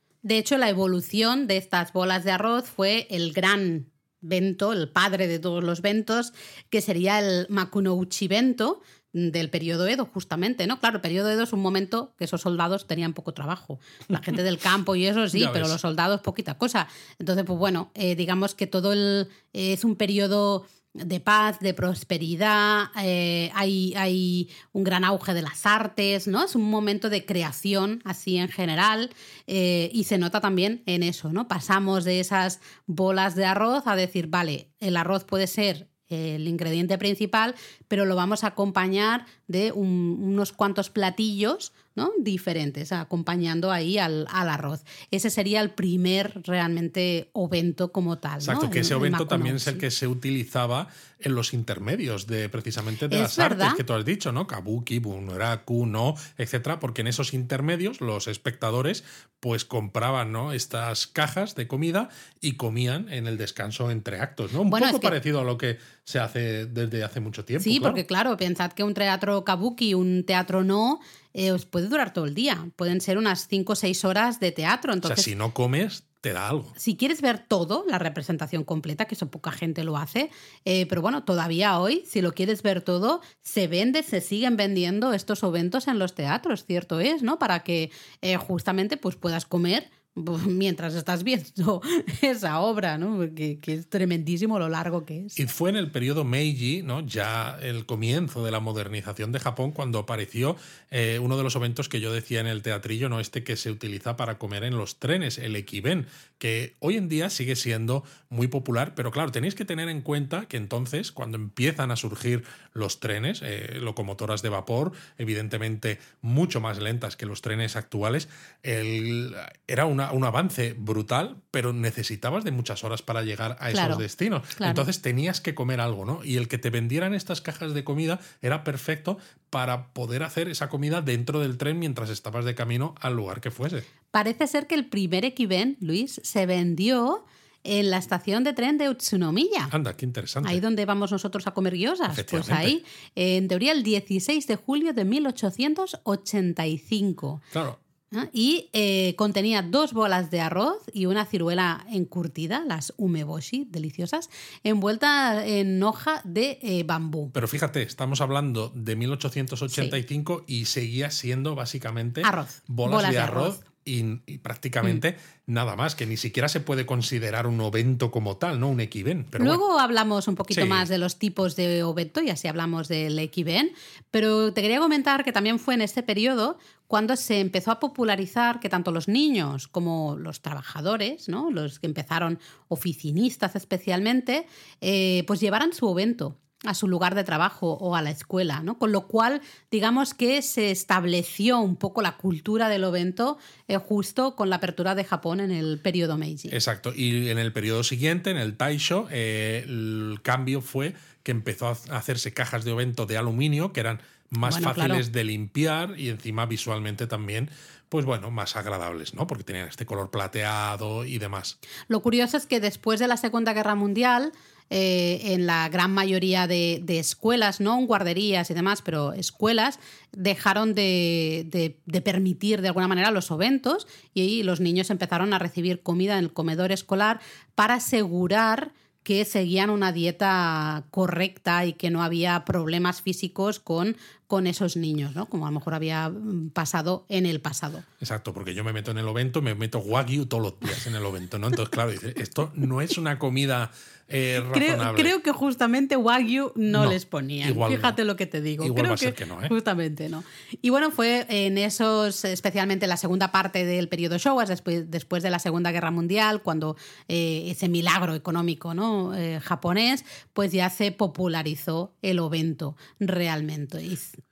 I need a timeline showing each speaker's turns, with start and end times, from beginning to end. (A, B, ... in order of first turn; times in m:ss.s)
0:00.2-0:49.8 A
0:15.3-0:15.8 B
0:48.4-1:08.0 B
0:53.1-0:53.8 A
1:04.7-1:05.2 A
1:07.6-1:15.3 A
1:15.0-1:16.7 B
1:16.8-1:35.4 A
1:35.4-2:13.9 B
2:03.7-2:04.0 A
2:04.6-2:04.9 A
2:14.1-2:19.7 A
2:19.7-2:20.6 B
2:20.4-2:27.4 A
2:22.1-2:22.8 B
2:27.5-2:27.8 B
2:28.1-2:37.3 A
2:37.3-2:49.6 B
2:39.7-2:40.0 A
2:42.2-2:43.6 A
2:49.4-3:16.6 A
2:50.5-2:50.9 B
3:16.5-3:31.6 B
3:24.4-3:25.0 A
3:31.9-3:57.8 A
3:58.0-4:05.1 B
4:04.4-4:24.2 A
4:06.7-4:08.0 B
4:08.6-4:09.6 B